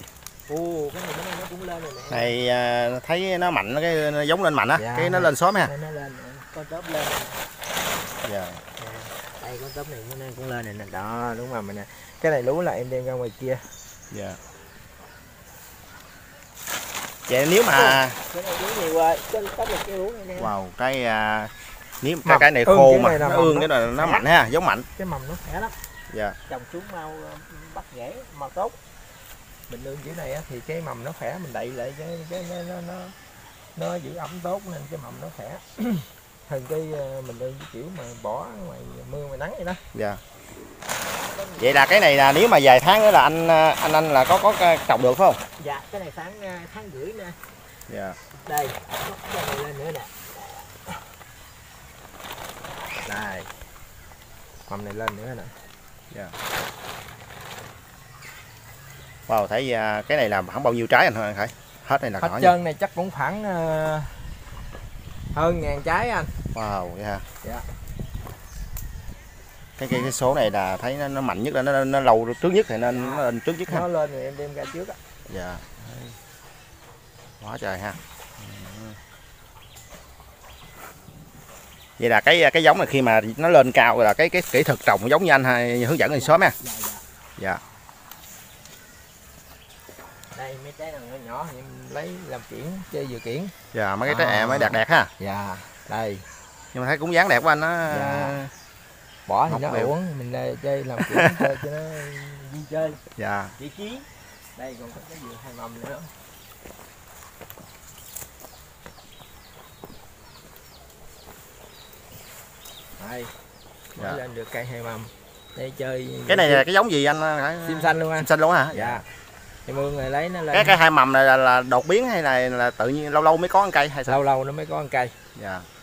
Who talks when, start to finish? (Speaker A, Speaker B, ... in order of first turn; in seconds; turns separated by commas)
Speaker A: 0.5-2.3, Speaker B: 2.1-5.7, Speaker A: 4.8-7.4, Speaker B: 8.2-8.6, Speaker A: 8.8-13.8, Speaker B: 14.1-14.4, Speaker B: 17.3-18.2, Speaker A: 17.7-20.5, Speaker B: 20.4-24.9, Speaker A: 22.2-24.2, Speaker A: 24.9-25.8, Speaker B: 26.1-26.4, Speaker A: 26.4-28.8, Speaker A: 29.7-33.1, Speaker A: 33.7-39.8, Speaker B: 39.9-40.2, Speaker A: 41.2-41.7, Speaker B: 41.6-45.4, Speaker A: 45.6-47.4, Speaker B: 47.9-48.2, Speaker A: 48.3-51.0, Speaker A: 53.0-53.5, Speaker A: 54.7-55.6, Speaker B: 59.3-62.5, Speaker A: 62.2-64.4, Speaker A: 65.3-66.3, Speaker B: 66.5-67.2, Speaker B: 69.8-73.8, Speaker A: 72.9-75.0, Speaker B: 75.3-76.2, Speaker B: 77.4-79.0, Speaker B: 82.0-86.5, Speaker A: 86.2-87.0, Speaker A: 90.3-93.5, Speaker B: 93.7-95.1, Speaker A: 94.0-96.2, Speaker B: 96.7-98.5, Speaker A: 97.9-98.5, Speaker A: 99.3-103.0, Speaker B: 99.5-99.9, Speaker B: 101.0-101.5, Speaker B: 103.2-103.5, Speaker A: 103.6-106.1, Speaker A: 113.0-113.3, Speaker A: 113.9-116.7, Speaker B: 116.3-119.0, Speaker A: 117.6-119.0, Speaker A: 119.7-120.8, Speaker B: 120.5-124.2, Speaker A: 124.1-125.2, Speaker B: 125.3-125.7